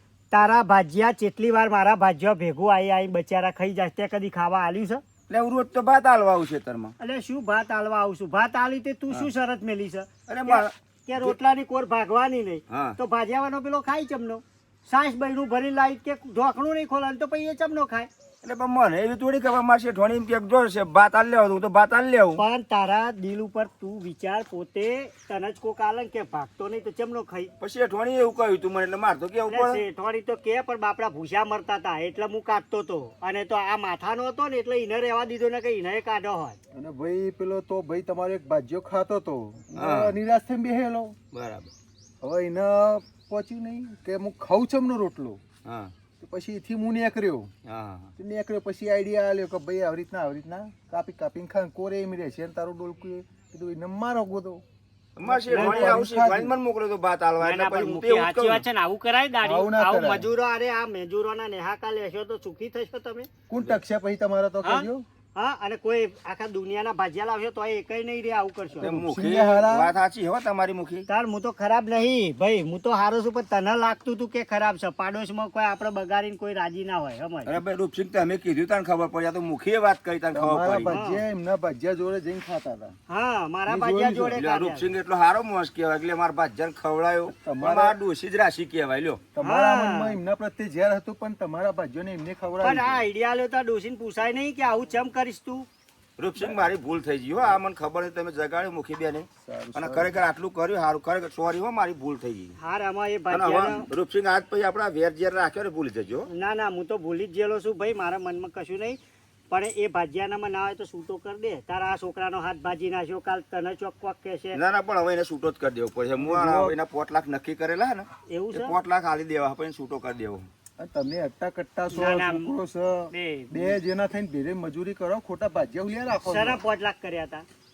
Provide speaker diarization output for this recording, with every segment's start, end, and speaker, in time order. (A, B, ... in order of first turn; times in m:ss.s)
0:00.3-0:05.0 A
0:05.3-0:06.9 B
0:07.0-0:18.1 A
0:10.3-0:11.4 B
0:12.7-0:13.0 B
0:18.4-0:22.4 B
0:22.4-0:27.5 A
0:27.6-0:29.8 B
0:29.5-0:36.6 A
0:36.7-0:41.2 C
0:39.8-0:40.2 B
0:41.3-0:41.7 B
0:42.2-0:45.4 C
0:45.6-0:45.9 B
0:46.2-0:47.5 C
0:47.6-0:48.1 B
0:48.2-0:54.6 C
0:55.2-0:58.6 B
0:55.2-0:56.6 C
0:55.5-0:56.0 A
0:57.4-1:03.3 A
0:59.4-1:00.3 C
1:03.5-1:05.1 C
1:04.6-1:08.9 A
1:08.8-1:09.9 C
1:08.8-1:11.1 B
1:11.1-1:17.6 A
1:17.5-1:21.0 B
1:20.3-1:23.0 C
1:20.9-1:21.2 A
1:23.1-1:24.9 A
1:23.7-1:24.4 C
1:24.4-1:29.2 B
1:27.3-1:28.0 C
1:29.3-1:33.1 C
1:29.4-1:30.2 A
1:32.6-1:35.7 A
1:36.2-1:42.6 B
1:36.4-1:36.7 C
1:39.4-1:40.2 C
1:42.6-1:43.9 A
1:43.3-1:46.3 B
1:46.3-1:49.0 A
1:49.5-1:54.6 A
1:54.5-2:00.5 B
1:56.2-1:56.8 C
1:58.3-1:58.8 A
2:00.8-2:06.6 C
2:01.9-2:02.5 A
2:03.1-2:03.8 A
2:06.2-2:07.5 A